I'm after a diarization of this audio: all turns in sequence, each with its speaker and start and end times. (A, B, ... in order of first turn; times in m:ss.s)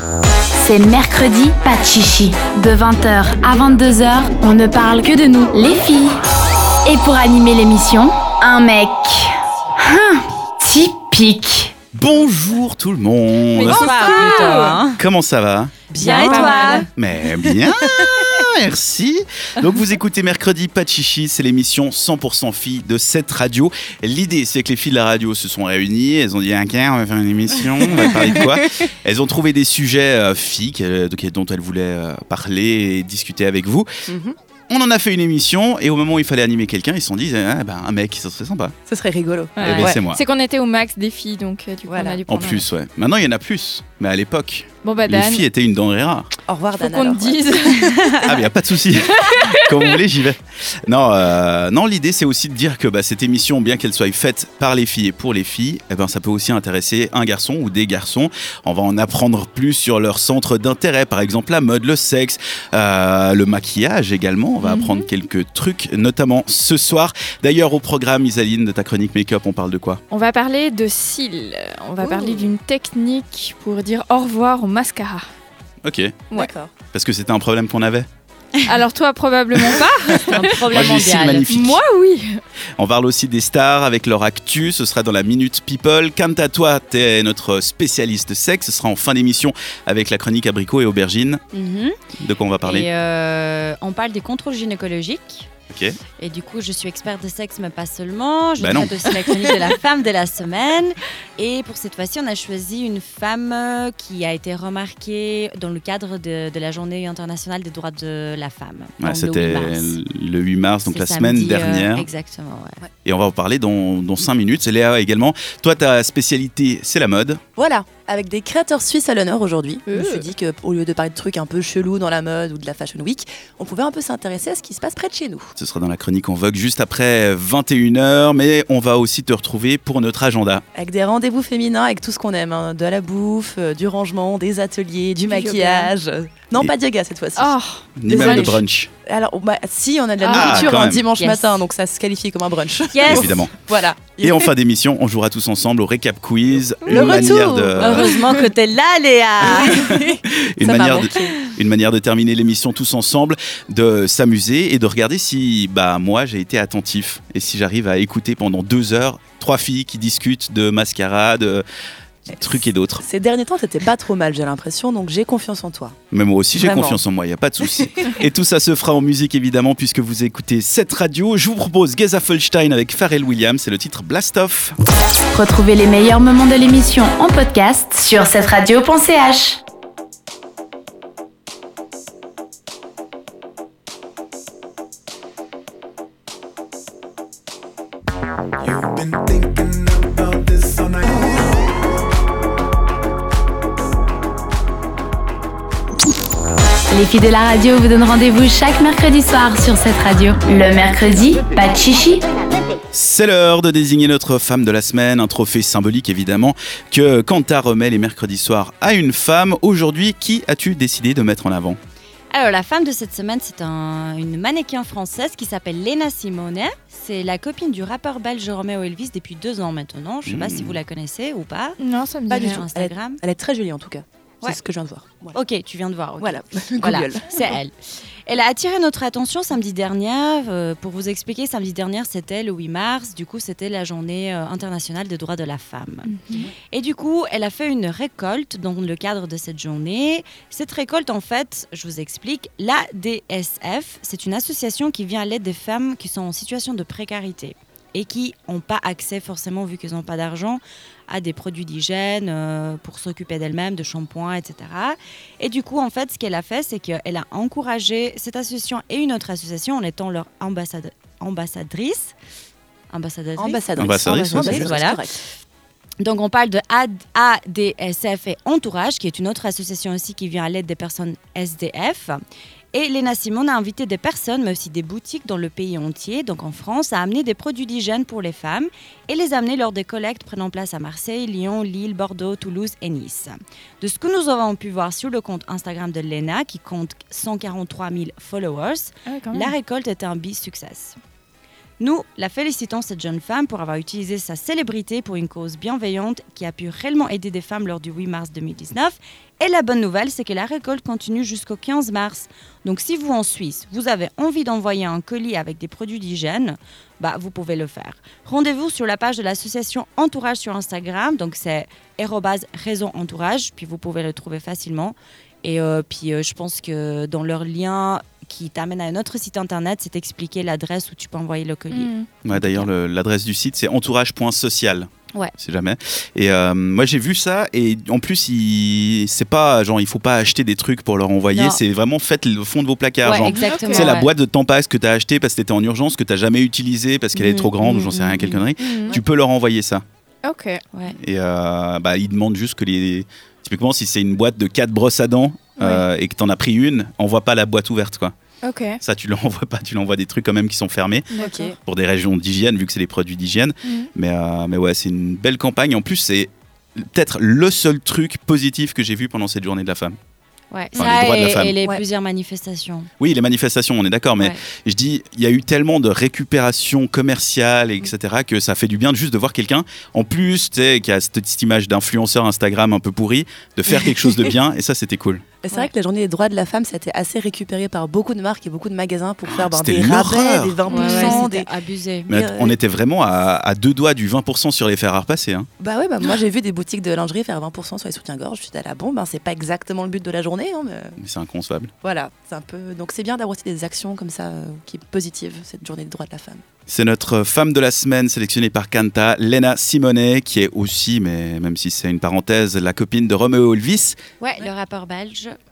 0:00.5-0:06.2 A
0:06.8-0:11.7 A
0:11.9-0:14.4 B
0:13.5-0:14.8 C
0:13.6-0:15.0 D
0:15.0-0:15.8 B
0:15.9-0:16.9 D
0:15.9-0:16.9 E
0:16.0-0:16.9 C
0:16.9-0:33.9 B
0:34.0-0:34.4 E
0:34.7-0:38.7 B
0:38.9-0:40.0 E
0:39.6-0:42.6 C
0:39.6-0:40.2 B
0:41.9-0:42.2 E
0:42.3-0:46.3 B
0:44.8-0:45.4 C
0:46.4-0:48.2 E
0:46.8-0:50.0 C
0:48.2-1:10.0 B
1:04.6-1:05.1 C
1:10.1-1:15.3 C
1:12.0-1:12.5 E
1:15.8-1:16.2 B
1:16.3-1:16.7 E
1:16.9-1:18.1 B
1:18.6-1:20.9 C
1:20.2-1:21.8 B
1:20.2-1:21.6 D
1:21.5-1:22.4 C
1:22.8-1:31.4 B
1:31.5-1:32.0 D
1:32.2-1:32.9 B
1:32.6-1:35.5 D
1:35.7-1:36.0 B
1:36.2-1:50.0 D
1:38.6-1:39.5 B
1:49.0-1:52.1 B
1:50.8-1:52.8 D
1:53.0-1:57.4 B
1:57.6-2:05.5 E
1:59.9-2:00.2 C
2:05.6-2:10.6 B
2:10.7-2:24.5 E
2:15.2-2:15.9 C
2:17.4-2:18.5 C
2:18.0-2:18.9 B
2:20.2-2:20.8 C
2:20.3-2:21.0 B
2:21.1-2:21.5 D
2:22.9-2:23.4 D
2:23.0-2:23.5 B
2:24.2-2:28.2 B
2:26.8-2:27.3 C
2:26.9-2:28.5 E
2:27.8-2:29.8 D
2:29.4-2:31.4 E
2:29.4-2:41.6 B
2:42.3-2:43.0 B
2:43.0-2:46.0 E
2:46.1-2:54.7 B
2:46.5-2:47.0 E
2:47.7-2:48.1 E
2:55.3-2:59.6 A
3:08.6-3:11.4 F
3:16.9-3:22.2 A
3:22.9-3:31.8 B
3:32.3-3:41.8 D
3:40.2-3:40.8 B
3:41.8-3:42.7 C
3:42.3-3:45.4 E
3:42.3-3:43.2 D
3:45.3-3:47.7 D
3:46.2-3:47.6 E
3:48.2-4:22.1 D
3:56.1-3:56.5 C
4:22.9-4:25.0 D
4:23.4-4:25.2 E
4:23.8-4:24.8 B
4:26.0-4:32.2 D
4:32.7-4:51.0 D
4:49.1-4:49.5 C
4:51.8-5:22.7 D
5:21.7-5:22.1 C
5:22.2-5:39.8 B
5:31.3-5:31.6 D
5:33.0-5:34.1 D
5:33.4-5:33.9 C
5:37.1-5:38.4 D
5:38.6-5:39.0 C
5:40.2-5:40.6 C
5:41.0-5:48.1 B
5:45.6-5:45.8 C
5:48.4-5:48.8 C
5:48.8-5:51.1 B
5:51.1-5:51.4 C
5:51.2-5:51.5 E
5:51.3-5:51.5 D
5:51.6-6:00.0 B
5:53.6-5:53.9 C
6:00.5-6:02.9 D
6:00.7-6:01.5 B
6:03.0-6:15.2 B
6:15.4-6:21.5 E
6:19.4-6:20.9 B
6:20.6-6:22.1 D
6:20.7-6:21.2 C
6:22.0-6:22.6 E
6:22.1-6:25.5 B
6:25.6-6:31.0 E
6:31.0-6:31.7 B
6:31.8-6:36.4 E
6:36.7-6:44.0 B
6:44.2-6:45.4 D